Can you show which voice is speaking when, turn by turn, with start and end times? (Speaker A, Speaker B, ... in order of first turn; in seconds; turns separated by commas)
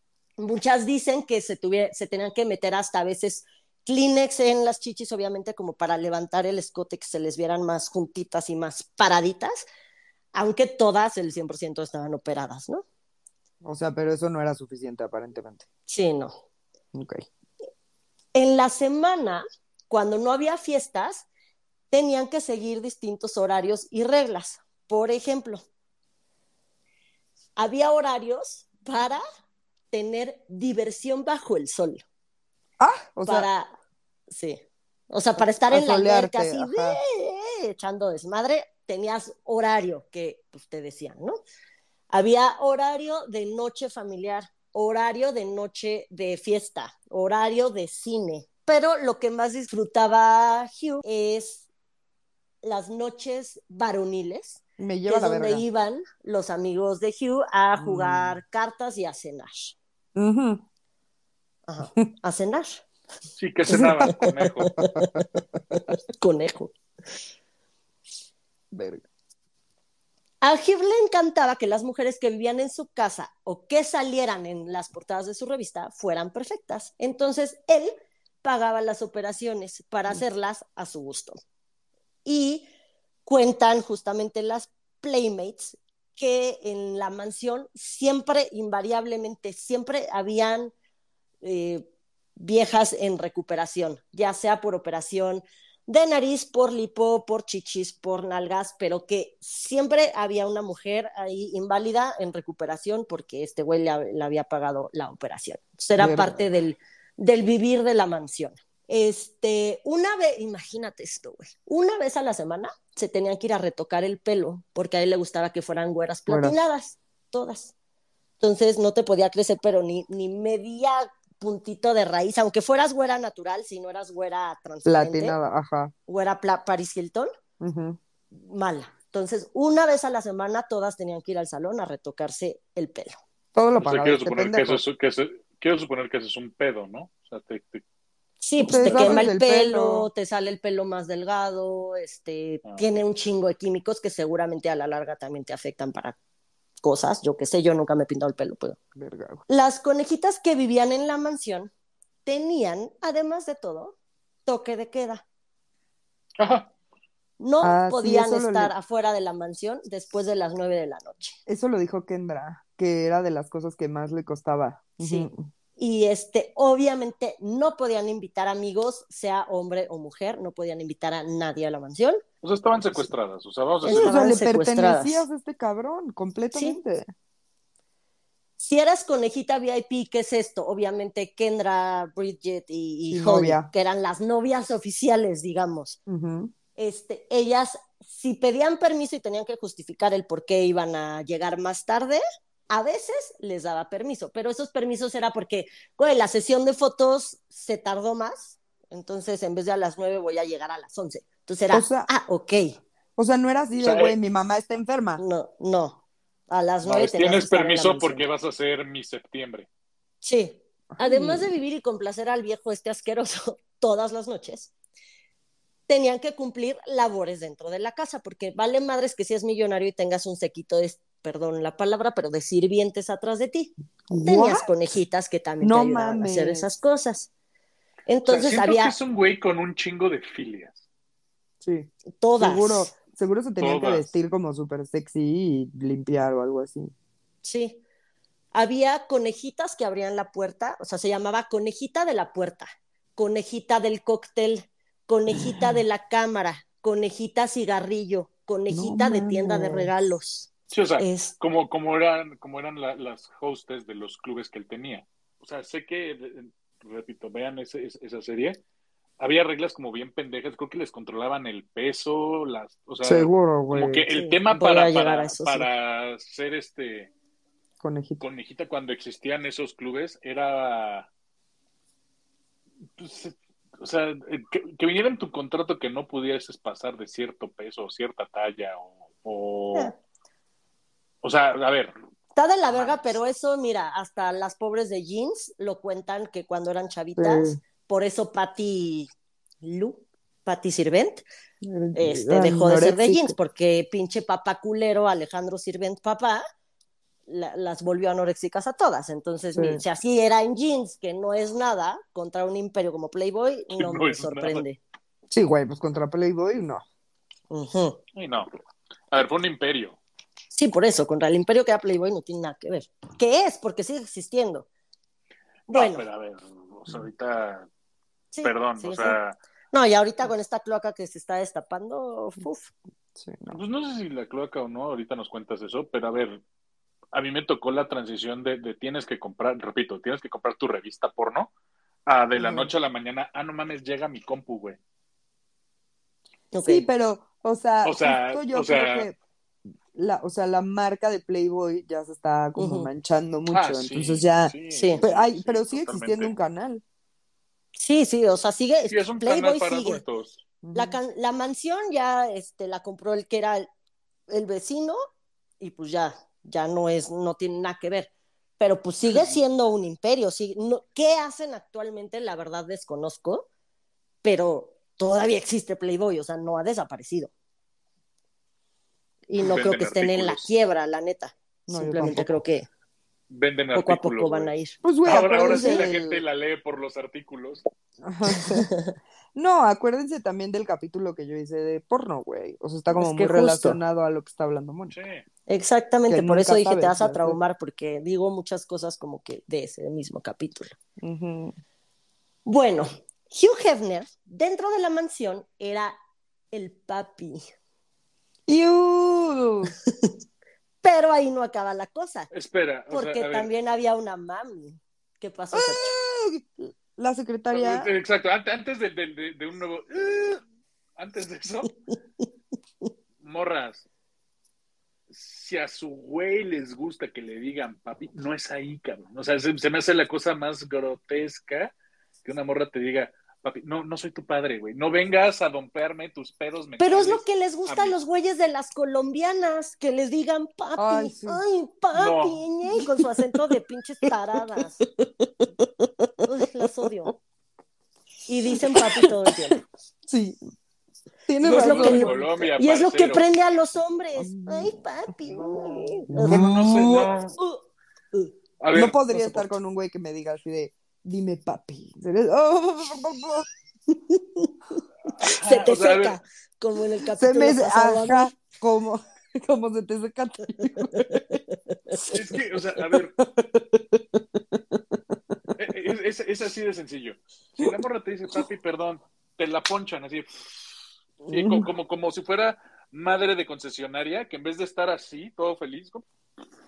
Speaker A: 0.4-9.7, Speaker A: 10.3-12.8, Speaker B: 13.6-15.6, Speaker A: 15.9-16.4, Speaker B: 16.9-17.2, Speaker A: 18.3-21.3, Speaker A: 21.9-25.6, Speaker A: 27.6-29.2, Speaker A: 29.9-32.0, Speaker B: 32.8-33.5, Speaker A: 33.2-33.7, Speaker A: 34.3-41.4, Speaker B: 35.7-37.0, Speaker A: 42.1-51.6, Speaker A: 52.6-59.8, Speaker B: 54.8-55.6, Speaker B: 57.8-58.4, Speaker B: 60.1-60.6, Speaker A: 61.7-62.8, Speaker C: 63.4-64.8, Speaker B: 63.7-65.8, Speaker A: 64.6-66.7, Speaker B: 68.7-69.0, Speaker A: 70.4-81.4, Speaker A: 82.2-82.7, Speaker A: 83.2-90.7, Speaker A: 91.4-91.8, Speaker A: 92.4-117.7, Speaker B: 106.0-106.4, Speaker B: 116.3-116.5, Speaker A: 118.4-125.3, Speaker B: 124.8-125.9, Speaker A: 126.1-127.3, Speaker B: 127.6-128.0, Speaker A: 128.3-133.2, Speaker B: 133.5-134.8, Speaker C: 133.8-137.8, Speaker A: 138.4-146.2, Speaker B: 138.6-140.1, Speaker C: 138.9-139.2, Speaker C: 142.6-143.0, Speaker A: 146.8-148.8, Speaker B: 148.9-149.4, Speaker A: 149.5-151.7, Speaker A: 152.2-155.2, Speaker C: 156.4-156.7, Speaker A: 157.4-161.4, Speaker B: 157.6-158.7, Speaker B: 161.4-165.5, Speaker A: 165.0-172.2, Speaker C: 172.4-174.2, Speaker A: 173.8-175.2, Speaker B: 173.9-177.1, Speaker A: 176.5-176.8, Speaker A: 178.6-186.0, Speaker B: 183.1-183.7, Speaker B: 186.1-186.5, Speaker A: 186.8-202.8, Speaker B: 201.7-202.1, Speaker B: 203.2-205.2, Speaker C: 203.8-204.2, Speaker A: 205.2-208.3, Speaker C: 206.8-209.7, Speaker A: 210.2-214.7, Speaker B: 210.9-211.5, Speaker A: 215.9-227.3, Speaker B: 224.1-224.7, Speaker B: 225.6-226.7, Speaker A: 228.1-228.9, Speaker C: 228.3-230.8, Speaker B: 231.6-236.9, Speaker A: 232.2-232.9, Speaker C: 233.6-234.1, Speaker A: 237.4-237.8, Speaker A: 238.5-251.3, Speaker B: 245.3-245.8, Speaker B: 248.7-249.9, Speaker C: 250.7-258.6, Speaker C: 259.2-267.1, Speaker B: 263.0-264.1, Speaker A: 264.1-265.7, Speaker B: 267.8-268.2, Speaker C: 268.2-271.1, Speaker C: 273.0-279.9, Speaker C: 281.2-281.9, Speaker A: 282.4-289.1, Speaker C: 282.7-283.1, Speaker B: 287.2-287.6, Speaker A: 289.6-291.2, Speaker B: 291.6-293.4, Speaker A: 291.9-296.4, Speaker A: 297.3-304.8, Speaker B: 299.6-299.8, Speaker C: 303.7-304.6, Speaker B: 305.3-306.8, Speaker A: 307.5-308.0, Speaker C: 308.1-308.5, Speaker C: 309.1-310.0, Speaker A: 310.5-314.6, Speaker A: 315.7-316.1, Speaker C: 315.7-317.7, Speaker A: 318.3-319.2, Speaker C: 318.4-319.4, Speaker A: 319.7-322.7, Speaker B: 323.1-323.6, Speaker C: 323.5-326.4, Speaker C: 327.1-331.5, Speaker C: 332.1-334.8, Speaker B: 332.4-332.7, Speaker A: 336.5-336.9, Speaker B: 336.6-339.2, Speaker C: 337.8-339.1, Speaker B: 339.9-346.8, Speaker A: 342.6-342.9, Speaker C: 343.5-346.3, Speaker A: 344.7-345.0, Speaker A: 347.8-350.0, Speaker C: 348.9-350.4, Speaker B: 350.6-351.0, Speaker A: 350.7-353.7, Speaker A: 354.3-355.0, Speaker A: 355.6-363.5, Speaker C: 359.1-359.4, Speaker A: 364.2-367.3, Speaker A: 369.3-372.6, Speaker C: 369.4-370.5, Speaker B: 371.7-372.3, Speaker C: 373.3-374.5, Speaker A: 373.7-375.9, Speaker B: 374.8-376.2, Speaker C: 375.0-377.6, Speaker B: 378.0-378.7, Speaker A: 378.4-378.9, Speaker B: 379.3-384.9, Speaker A: 382.9-383.8, Speaker C: 384.9-385.2, Speaker A: 385.5-390.8, Speaker B: 386.1-387.4, Speaker B: 391.0-391.5, Speaker A: 392.4-395.9, Speaker A: 396.5-397.4, Speaker B: 398.5-399.7, Speaker A: 400.8-402.3, Speaker C: 402.3-403.5, Speaker A: 402.9-405.9, Speaker B: 405.5-407.9, Speaker C: 407.5-410.4, Speaker C: 410.9-411.7, Speaker C: 413.2-413.9, Speaker C: 415.1-421.7, Speaker C: 422.2-427.9, Speaker A: 426.8-434.8, Speaker B: 430.8-431.4, Speaker C: 431.9-432.4, Speaker B: 434.5-436.1, Speaker A: 436.2-437.1, Speaker A: 438.3-439.6, Speaker B: 438.7-439.1, Speaker B: 440.0-440.4, Speaker B: 441.3-442.3, Speaker C: 441.4-443.2, Speaker A: 441.4-448.3, Speaker B: 444.2-444.8, Speaker B: 446.1-447.1, Speaker C: 446.2-447.3, Speaker C: 448.6-449.5, Speaker B: 448.7-453.4, Speaker A: 453.9-454.5, Speaker C: 455.2-456.2, Speaker A: 455.2-458.3, Speaker B: 457.2-461.4, Speaker A: 460.9-462.0, Speaker B: 461.9-465.5, Speaker C: 462.1-463.2, Speaker C: 465.6-470.8, Speaker B: 471.2-471.7, Speaker C: 471.3-476.0